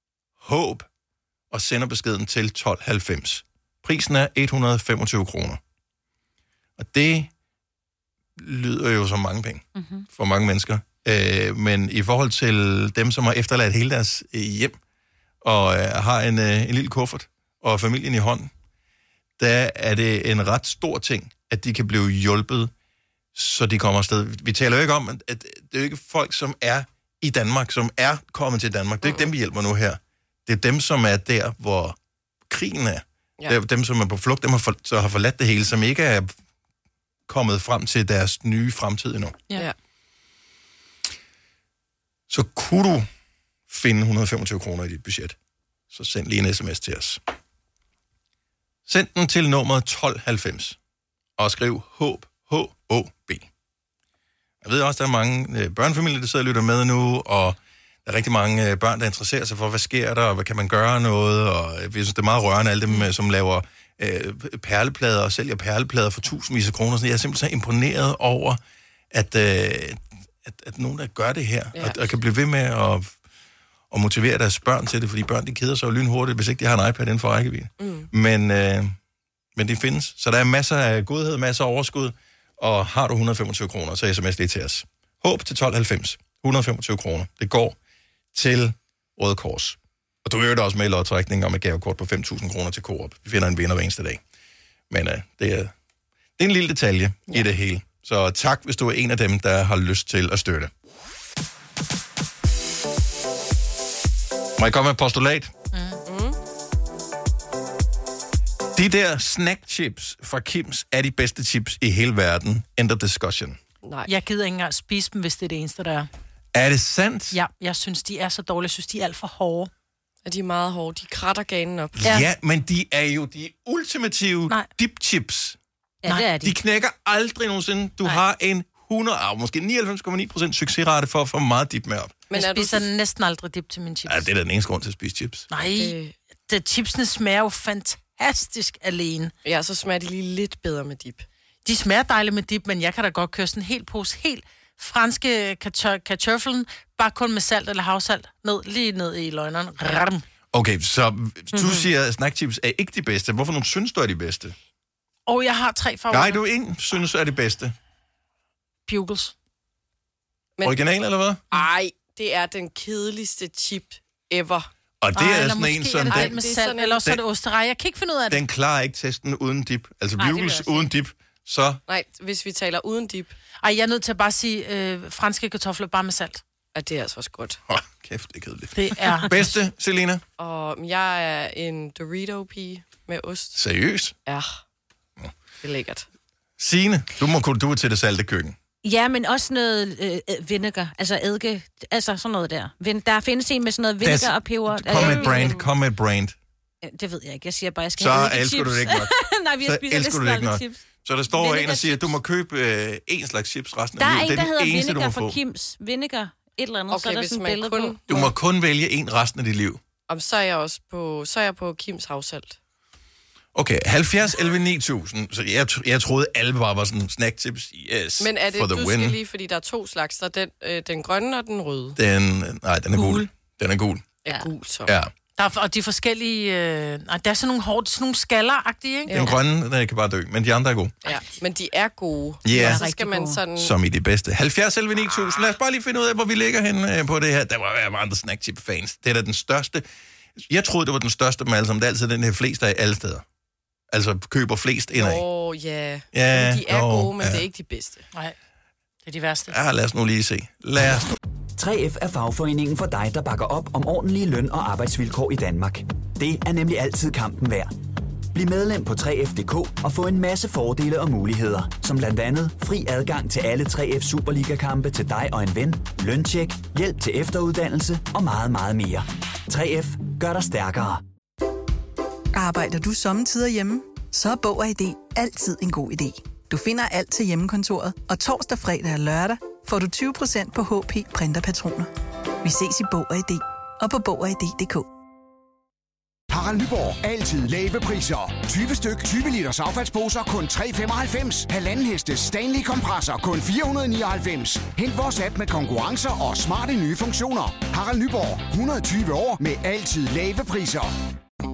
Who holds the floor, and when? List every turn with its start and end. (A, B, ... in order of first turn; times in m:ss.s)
0:00.4-0:00.9 A
0:01.5-0:05.6 A
0:06.8-0:07.3 A
0:08.4-0:14.8 A
0:09.8-0:10.0 B
0:15.4-0:18.5 A
0:19.4-0:22.7 A
0:23.3-0:32.0 A
0:29.0-0:29.3 C
0:32.5-0:36.3 A
0:37.3-0:39.4 A
0:42.3-0:43.1 A
0:43.7-0:45.3 A
0:45.9-0:47.2 A
0:48.9-0:50.8 A
0:51.4-0:53.5 A
0:54.6-1:08.6 A
1:09.1-1:13.2 A
1:11.7-1:12.1 C
1:13.9-1:18.9 A
1:17.8-1:18.1 C
1:19.6-1:27.8 A
1:28.3-1:34.2 A
1:34.9-1:35.7 A
1:36.4-1:40.7 A
1:44.6-1:45.5 A
1:45.7-1:46.0 D
1:46.0-1:46.4 C
1:48.7-1:53.6 A
1:53.8-1:54.1 C
1:54.1-1:56.1 D
1:56.5-1:57.4 A
1:57.3-1:59.7 D
2:00.2-2:02.2 C
2:02.0-2:05.6 A
2:06.0-2:06.5 B
2:06.4-2:12.2 A
2:12.3-2:12.9 C
2:12.3-2:14.3 D
2:14.0-2:15.5 A
2:15.5-2:16.0 D
2:15.6-2:16.1 C
2:16.5-2:19.3 D
2:19.4-2:21.2 C
2:21.6-2:30.2 D
2:30.5-2:34.5 A
2:35.3-2:36.4 D
2:36.1-2:37.7 A
2:38.9-2:39.3 D
2:40.6-2:41.4 A
2:41.5-2:44.7 C
2:45.0-2:46.4 A
2:45.1-2:48.4 D
2:46.1-2:47.0 C
2:48.3-2:51.8 A
2:50.2-2:50.9 B
2:51.9-2:53.3 C
2:53.6-2:56.4 D
2:56.7-2:57.6 C
2:57.7-3:00.2 A
2:58.7-2:59.6 D
3:00.4-3:03.6 C
3:03.5-3:04.1 A
3:04.2-3:04.6 C
3:05.6-3:06.0 C
3:06.6-3:08.6 A
3:08.8-3:15.6 B
3:14.0-3:16.4 A
3:14.9-3:15.6 C
3:16.8-3:22.2 B
3:18.0-3:19.1 A
3:19.6-3:25.4 A
3:24.0-3:28.0 B
3:26.9-3:28.3 C
3:28.1-3:29.8 A
3:30.1-3:32.6 C
3:33.5-3:39.2 A
3:38.2-3:42.0 C
3:42.0-3:44.2 A
3:42.9-3:43.2 B
3:44.2-3:44.9 C
3:45.4-3:49.3 D
3:49.1-3:49.4 C
3:49.1-3:51.0 A
3:51.0-3:53.7 C
3:52.4-3:52.8 A
3:52.5-3:53.4 B
3:53.6-3:59.8 A
4:00.4-4:03.2 A
4:03.9-4:05.2 A
4:04.9-4:08.0 C
4:06.1-4:07.4 A
4:09.0-4:09.6 D
4:09.5-4:11.1 A
4:11.6-4:17.7 E
4:18.3-4:31.0 E
4:32.3-4:41.9 F
4:42.4-4:44.8 F
4:46.3-5:00.9 G